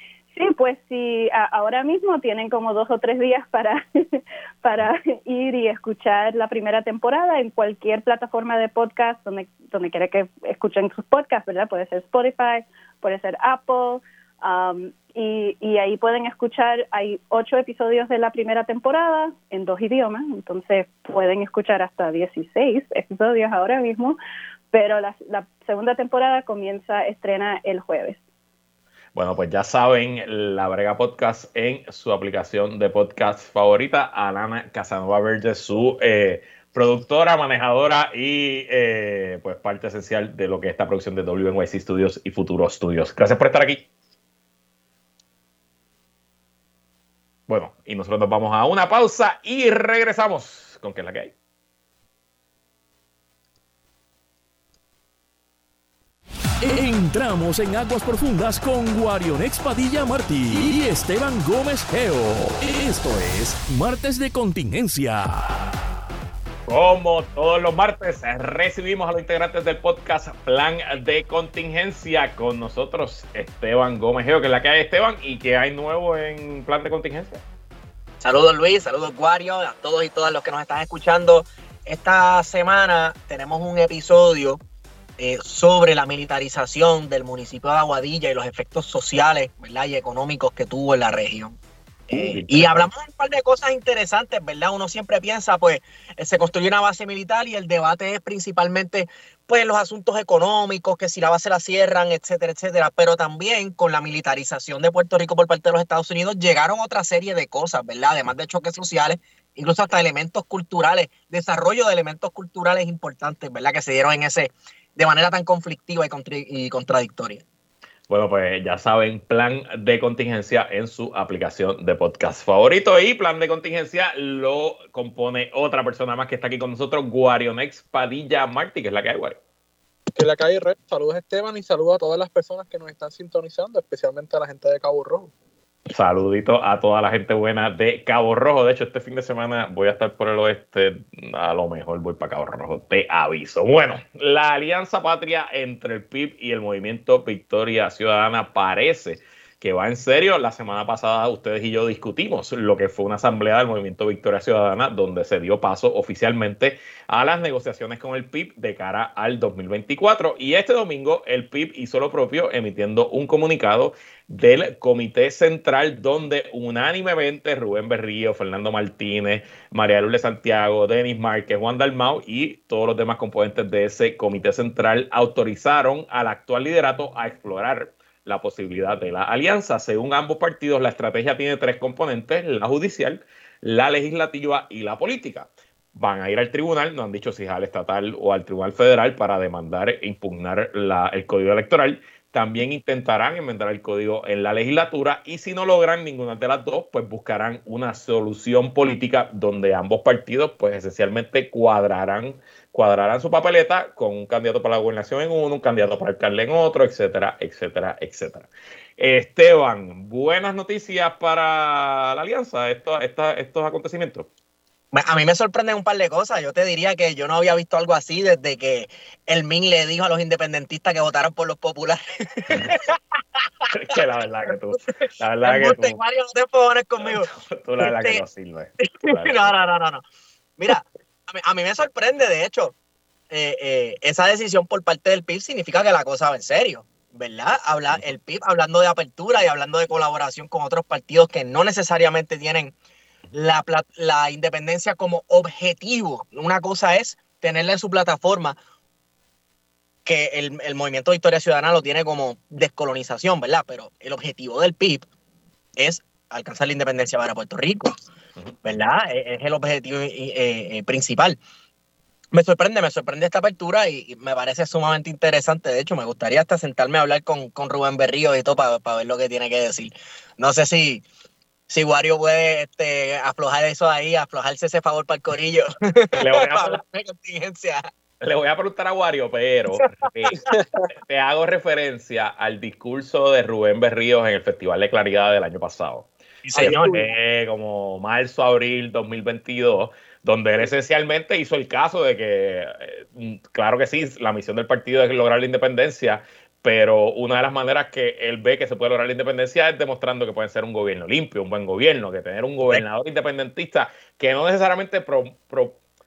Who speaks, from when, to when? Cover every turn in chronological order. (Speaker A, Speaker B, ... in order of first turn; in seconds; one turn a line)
Speaker A: 0.3-24.2
Speaker A: 24.7-28.2
Speaker B: 29.1-43.9
Speaker B: 47.5-51.3
Speaker C: 56.6-65.5
Speaker B: 66.7-77.4
Speaker D: 78.2-84.6
Speaker D: 85.2-91.6
Speaker D: 92.1-117.4
Speaker B: 92.1-92.9
Speaker B: 118.1-129.4
Speaker E: 130.2-135.3
Speaker B: 135.9-214.3
Speaker D: 214.9-223.4
Speaker B: 223.7-226.0
Speaker D: 225.4-227.3
Speaker B: 227.0-229.5
Speaker D: 227.8-228.2
Speaker D: 228.8-230.0
Speaker D: 230.6-232.8
Speaker D: 233.3-242.8
Speaker D: 243.3-248.6
Speaker D: 250.1-255.1
Speaker D: 255.8-257.9
Speaker D: 258.6-261.4
Speaker D: 262.3-271.1
Speaker D: 271.7-277.9
Speaker B: 276.1-276.8
Speaker B: 278.2-305.8
Speaker D: 279.8-280.4
Speaker E: 280.5-280.9
Speaker D: 286.5-287.1
Speaker E: 286.6-287.0